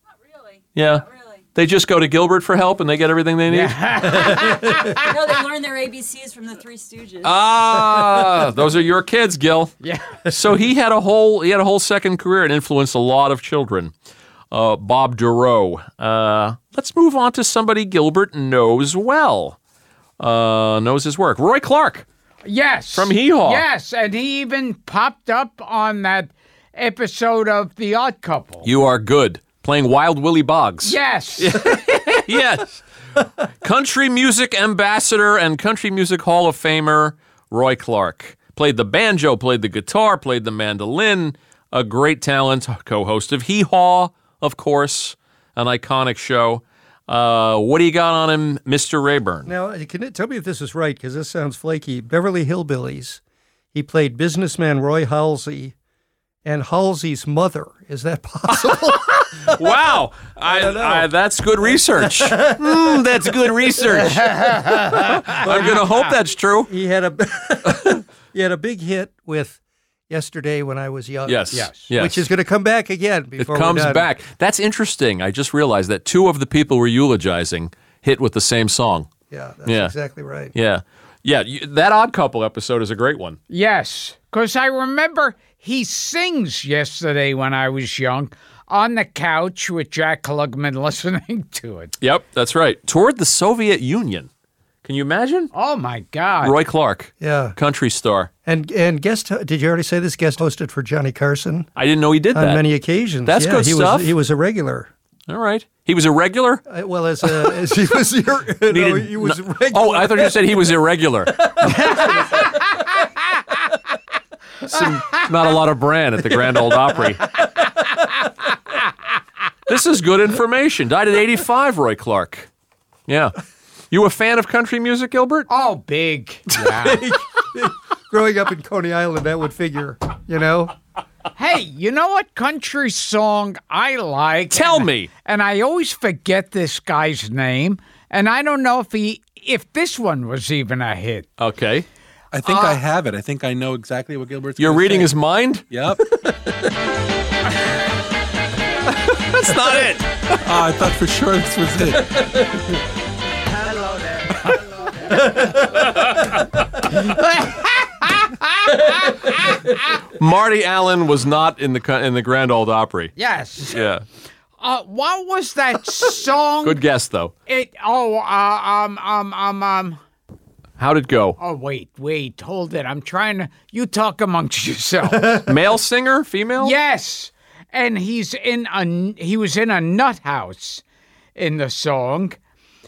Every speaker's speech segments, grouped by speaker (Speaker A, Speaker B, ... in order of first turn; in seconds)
Speaker A: 0.3-1.4, 5.0-7.4
Speaker B: 0.8-1.0, 1.6-3.8, 7.2-9.7, 10.3-13.9, 14.5-19.6, 20.2-22.1, 22.9-23.6, 28.6-32.8, 33.6-49.5, 58.5-66.7, 71.3-72.3, 73.4-79.1, 79.7-79.9, 80.5-83.4, 92.0-94.3, 94.8-95.5, 96.4-98.3, 101.8-102.6, 103.3-104.2, 105.3-106.6, 108.7-111.7, 114.7-117.3, 119.7-122.5, 123.1-123.4, 123.9-125.5, 134.5-135.1, 141.4-141.9, 144.6-145.7, 148.9-150.4, 155.3-156.4, 160.1-163.1, 163.7-164.0, 166.6-167.3, 170.8-171.4, 175.4-176.7
Speaker C: 3.5-5.1, 9.8-10.2, 22.4-28.7, 30.8-32.1, 63.9-65.8, 71.5-71.9, 83.5-92.0, 95.5-96.6, 111.7-112.8, 125.5-127.0, 131.4-141.3, 142.5-142.8, 156.9-159.8, 163.2-163.8, 164.6-166.8, 167.5-170.0, 171.4-175.4, 176.6-180.8, 181.4-182.4
Speaker D: 4.2-4.9, 49.5-53.2, 53.7-55.8, 56.5-59.8, 60.5-61.1, 61.6-63.8, 65.3-66.0, 66.7-74.1, 79.3-80.5, 97.2-97.6, 98.5-101.7, 102.3-104.9, 106.7-110.7, 111.4-112.5, 126.6-130.7, 175.1-175.5
Speaker E: 142.3-145.1, 145.7-146.0, 150.4-152.2